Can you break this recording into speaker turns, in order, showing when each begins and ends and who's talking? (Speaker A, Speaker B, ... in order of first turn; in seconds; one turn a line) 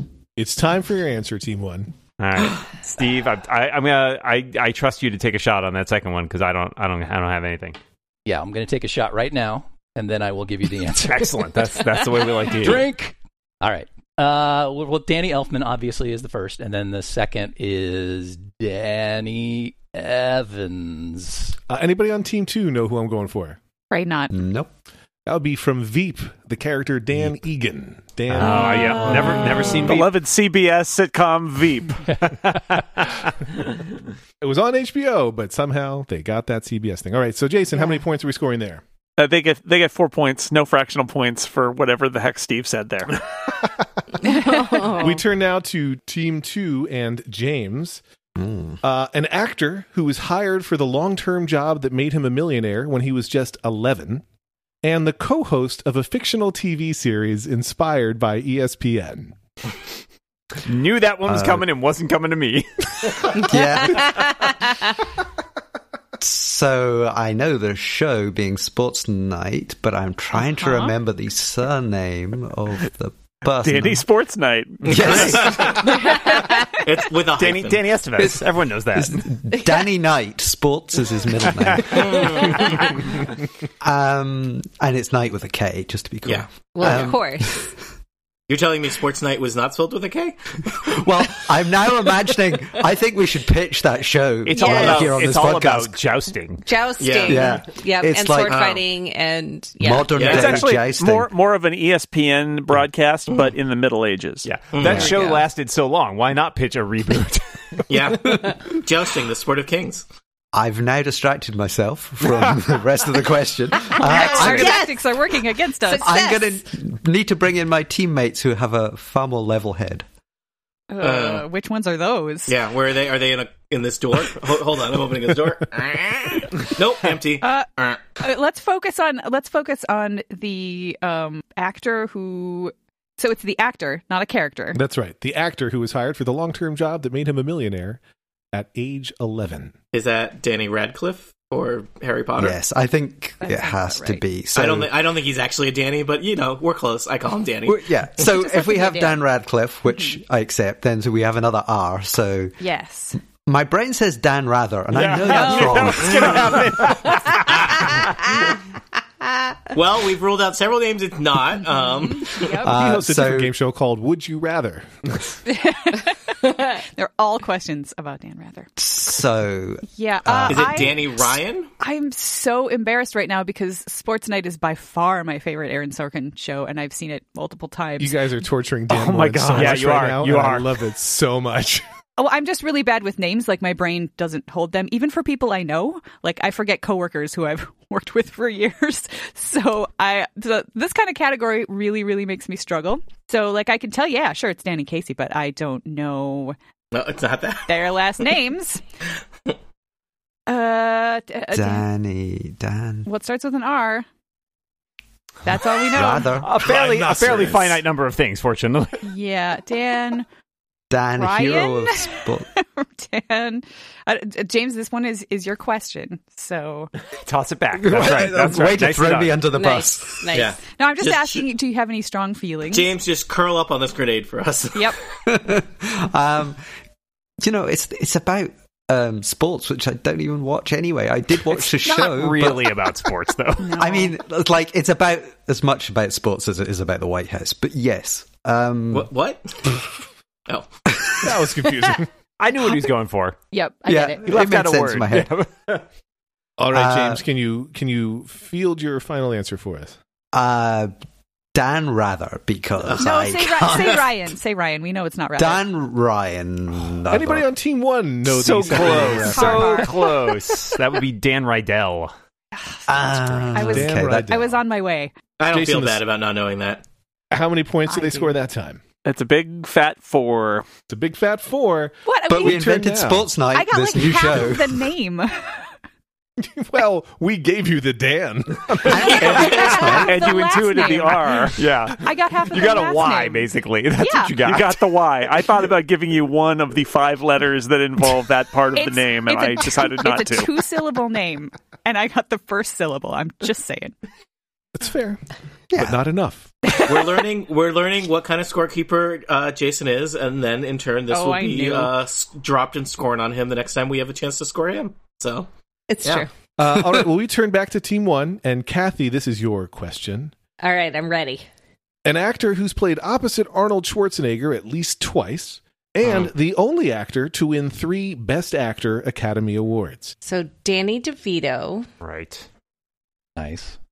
Speaker A: 0.4-1.9
Speaker B: 2.2-7.8
Speaker C: 8.2-21.6
Speaker B: 11.0-12.9
Speaker A: 21.7-23.6
Speaker D: 23.9-24.3
Speaker E: 24.3-24.7
Speaker A: 25.2-29.5
Speaker B: 28.3-30.1
Speaker F: 29.1-32.1
Speaker B: 32.2-33.9
Speaker A: 34.4-38.8
Speaker F: 39.2-43.2
Speaker G: 44.2-45.2
Speaker A: 44.7-48.0
Speaker E: 48.4-48.8
Speaker A: 48.8-54.2
Speaker A: 54.8-59.3
Speaker B: 60.6-64.2
Speaker E: 61.3-61.6
Speaker E: 63.4-64.2
Speaker G: 63.6-64.5
Speaker E: 66.2-74.0
Speaker D: 70.5-70.9
Speaker F: 73.5-75.5
Speaker H: 74.8-77.9
Speaker E: 74.9-75.8
Speaker B: 75.0-75.5
Speaker G: 76.1-76.7
Speaker B: 77.3-79.3
Speaker E: 78.2-83.0
Speaker H: 81.9-82.8
Speaker E: 83.8-87.7
Speaker H: 86.2-87.0
Speaker G: 86.7-87.7
Speaker H: 88.5-91.0
Speaker E: 90.9-96.0
Speaker B: 94.4-96.6
Speaker G: 94.5-95.0
Speaker H: 94.8-95.2
Speaker G: 96.6-100.1
Speaker H: 97.0-97.6
Speaker E: 97.2-98.6
Speaker H: 98.5-98.8
Speaker E: 99.8-101.3
Speaker H: 100.1-100.6
Speaker F: 100.2-104.5
Speaker B: 104.4-107.8
Speaker H: 104.7-105.2
Speaker G: 104.9-105.5
Speaker H: 107.9-110.0
Speaker E: 110.5-114.8
Speaker G: 113.9-115.0
Speaker D: 114.0-116.2
Speaker G: 115.8-116.6
Speaker E: 116.0-120.0
Speaker D: 120.9-122.5
Speaker H: 121.0-121.5
Speaker H: 122.5-128.1
Speaker D: 127.4-127.7
Speaker D: 128.2-134.8
Speaker A: 134.7-138.0
Speaker A: 138.5-139.7
Speaker H: 139.9-142.6
Speaker E: 142.4-144.9
Speaker D: 143.4-144.2
Speaker H: 144.6-147.9
Speaker E: 147.7-152.6
Speaker D: 148.2-149.2
Speaker D: 149.9-150.2
Speaker D: 152.6-153.2
Speaker E: 153.3-156.7
Speaker B: 154.9-158.4
Speaker D: 155.2-156.1
Speaker H: 156.1-156.4
Speaker G: 159.3-159.7
Speaker H: 159.7-162.5
Speaker D: 161.7-162.7
Speaker E: 162.5-163.5
Speaker A: 162.6-165.3
Speaker D: 165.4-168.7
Speaker E: 168.8-171.0
Speaker D: 169.9-171.0
Speaker H: 170.5-171.7
Speaker D: 171.8-178.2
Speaker A: 178.0-181.8
Speaker B: 178.9-180.8
Speaker D: 182.2-196.6
Speaker H: 196.9-197.8
Speaker D: 197.7-198.8
Speaker D: 200.5-201.8
Speaker E: 201.5-203.1
Speaker D: 203.0-204.1
Speaker D: 205.4-206.3
Speaker E: 205.9-206.6
Speaker B: 206.3-209.0
Speaker H: 206.8-207.3
Speaker D: 209.0-210.2
Speaker E: 210.9-212.5
Speaker D: 211.1-216.9
Speaker B: 217.2-219.5
Speaker E: 217.7-220.3
Speaker G: 219.5-220.6
Speaker H: 220.3-221.4
Speaker D: 220.8-222.9
Speaker H: 222.7-224.9
Speaker E: 225.2-226.6
Speaker E: 227.4-233.0
Speaker B: 231.5-233.8
Speaker D: 233.6-234.1
Speaker E: 233.8-239.1
Speaker H: 238.9-239.7
Speaker H: 240.5-240.8
Speaker A: 241.2-242.1
Speaker B: 242.4-243.4
Speaker D: 243.5-244.5
Speaker E: 243.9-245.3
Speaker B: 244.2-245.8
Speaker A: 246.6-250.0
Speaker E: 246.7-247.2
Speaker E: 250.3-250.9
Speaker E: 251.5-254.3
Speaker D: 253.0-255.6
Speaker E: 255.4-257.5
Speaker A: 257.1-259.8
Speaker B: 258.2-262.1
Speaker D: 258.8-260.6
Speaker D: 262.6-265.1
Speaker E: 262.9-264.5
Speaker A: 263.6-264.5
Speaker H: 265.4-266.8
Speaker A: 265.5-266.0
Speaker A: 267.3-268.8
Speaker D: 267.9-268.3
Speaker F: 269.0-270.6
Speaker A: 270.9-273.3
Speaker D: 272.0-272.7
Speaker E: 272.3-274.9
Speaker D: 273.5-275.7
Speaker A: 276.4-279.5
Speaker E: 278.8-280.2
Speaker D: 278.9-284.3
Speaker F: 279.3-281.6
Speaker B: 281.5-285.0
Speaker F: 284.4-290.5
Speaker D: 288.7-293.9
Speaker A: 294.7-295.2
Speaker E: 295.7-296.0
Speaker A: 295.8-296.5
Speaker H: 296.8-305.5
Speaker D: 301.1-301.9
Speaker G: 305.9-306.3
Speaker A: 306.6-310.3
Speaker G: 310.6-311.4
Speaker A: 312.0-320.1
Speaker H: 316.0-316.3
Speaker G: 320.2-321.9
Speaker B: 322.0-322.4
Speaker C: 323.4-323.8